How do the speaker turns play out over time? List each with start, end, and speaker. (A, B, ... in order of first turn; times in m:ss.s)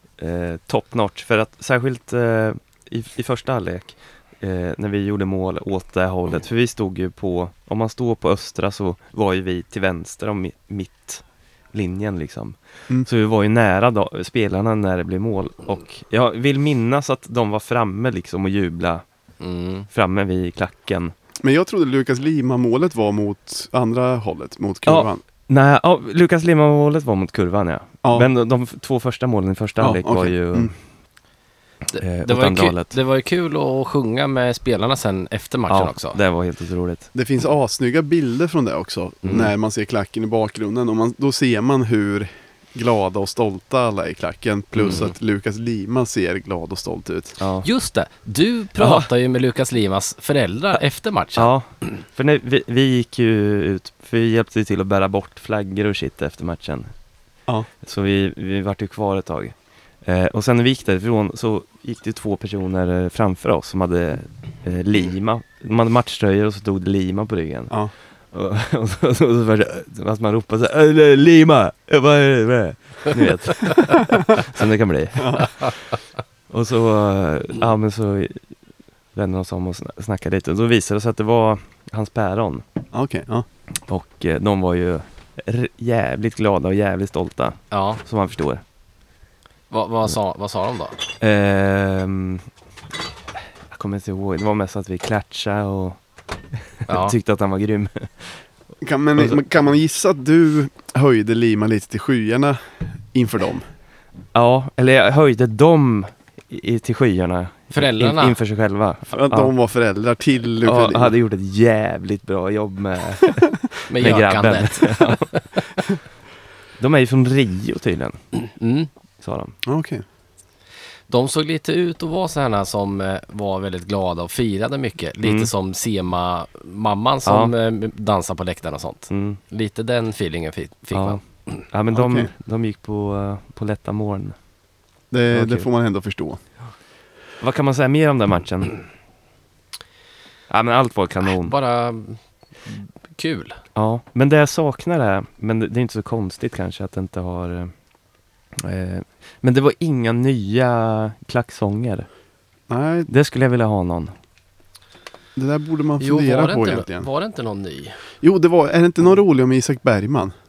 0:00.2-0:19.0 A
0:19.4-0:19.9 B
0:19.9-0:21.1 A
0:21.4-0:25.2 C
0:24.8-0:30.8 A
0:29.8-0:30.7 C
0:31.9-0:36.2 B
0:32.0-0:32.9 A
0:35.7-0:37.1 A
0:37.1-0:47.4 C
0:39.2-0:39.5 A
0:44.8-0:45.0 B
0:47.4-0:47.6 A
0:47.6-0:51.5 B
0:48.8-0:49.1 A
0:51.4-0:56.9 A
0:57.8-0:59.5 A
1:00.0-1:07.7 A
1:08.3-1:15.8 A
1:15.2-1:15.5 C
1:16.5-1:18.4 A
1:19.1-1:22.6 A
1:22.9-1:23.4 C
1:23.9-1:28.6 A
1:27.7-1:28.0 B
1:29.7-1:31.0 B
1:31.2-1:32.5 A
1:33.7-1:36.0 A
1:36.8-1:38.4 A
1:36.9-1:37.2 B
1:38.8-1:43.6 C
1:44.3-1:49.5 A
1:47.7-1:48.4 B
1:49.1-1:51.1 C
1:50.6-1:55.3 A
1:53.9-1:55.8 B
1:56.8-1:58.2 A
1:58.4-1:58.9 B
1:59.2-1:59.5 A
1:59.6-2:00.0 C
2:01.1-2:11.2 B
2:05.2-2:05.5 A
2:07.2-2:07.5 A
2:09.1-2:09.4 A
2:10.9-2:11.2 A
2:11.7-2:14.4 A
2:11.9-2:12.3 C
2:15.1-2:16.4 C
2:15.3-2:15.6 A
2:17.4-2:18.8 A
2:20.5-2:21.5 A
2:21.2-2:23.6 B
2:23.7-2:27.7 A
2:28.6-2:32.1 A
2:32.7-2:33.1 C
2:33.1-2:34.1 A
2:35.4-2:37.1 C
2:36.0-2:38.0 B
2:38.2-2:40.3 C